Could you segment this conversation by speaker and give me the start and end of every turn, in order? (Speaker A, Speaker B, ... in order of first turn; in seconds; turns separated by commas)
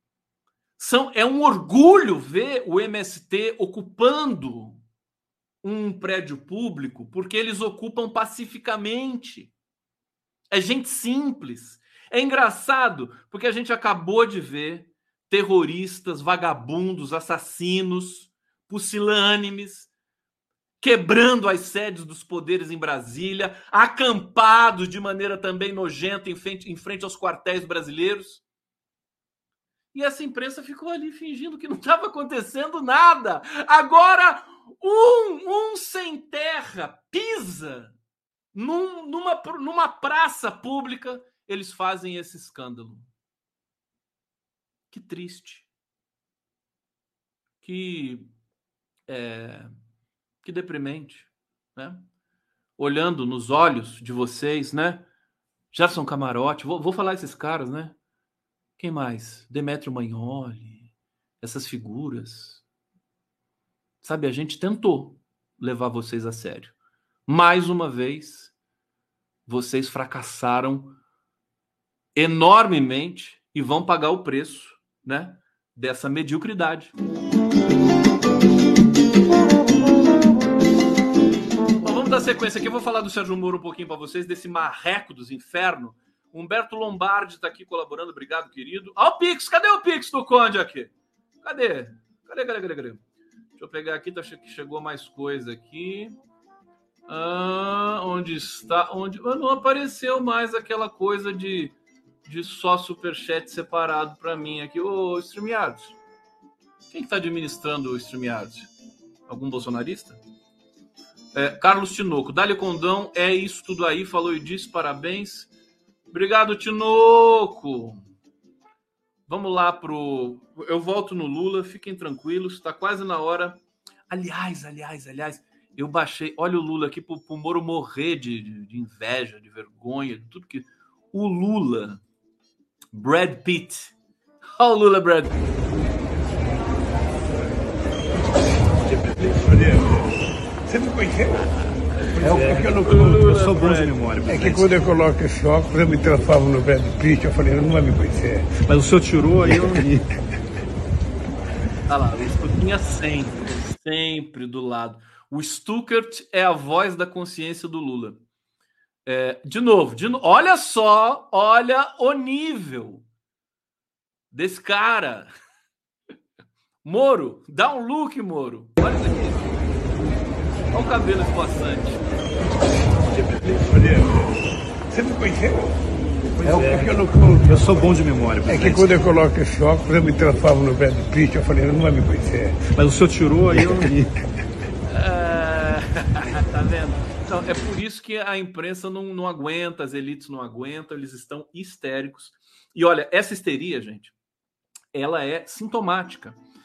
Speaker A: 0.8-4.8, Speaker A: 5.6-9.5, Speaker A: 10.5-19.9, Speaker A: 20.8-28.4, Speaker A: 29.9-38.0, Speaker A: 38.5-43.1, Speaker A: 44.9-45.7, Speaker A: 47.6-48.3, Speaker A: 49.1-49.7, Speaker A: 50.4-52.0, Speaker A: 52.8-55.0, Speaker A: 55.7-58.0, Speaker A: 58.8-60.9, Speaker A: 61.4-62.6, Speaker A: 64.0-66.7, Speaker A: 67.3-68.5, Speaker A: 69.5-71.0, Speaker A: 72.2-76.9, Speaker A: 81.8-93.0, Speaker A: 93.6-96.1, Speaker A: 97.1-106.0, Speaker A: 106.9-108.7, Speaker A: 109.3-110.2, Speaker A: 111.3-115.5, Speaker A: 116.1-118.0, Speaker A: 119.3-132.0, Speaker A: 132.9-133.9, Speaker A: 134.6-135.5, Speaker B: 139.2-139.9, Speaker B: 140.7-141.4, Speaker A: 142.2-144.0, Speaker B: 142.2-143.3, Speaker C: 142.2-144.8, Speaker B: 144.3-148.6, Speaker C: 148.7-150.1, Speaker A: 149.5-149.8, Speaker A: 151.9-158.2, Speaker A: 159.1-163.1, Speaker A: 164.3-165.3, Speaker A: 166.8-169.5, Speaker A: 170.7-172.0, Speaker B: 173.4-174.2, Speaker B: 174.9-175.7, Speaker C: 176.4-179.0, Speaker B: 176.4-177.8, Speaker B: 178.5-182.7, Speaker C: 182.7-184.1, Speaker B: 183.6-183.9, Speaker A: 184.9-194.1, Speaker A: 194.9-196.4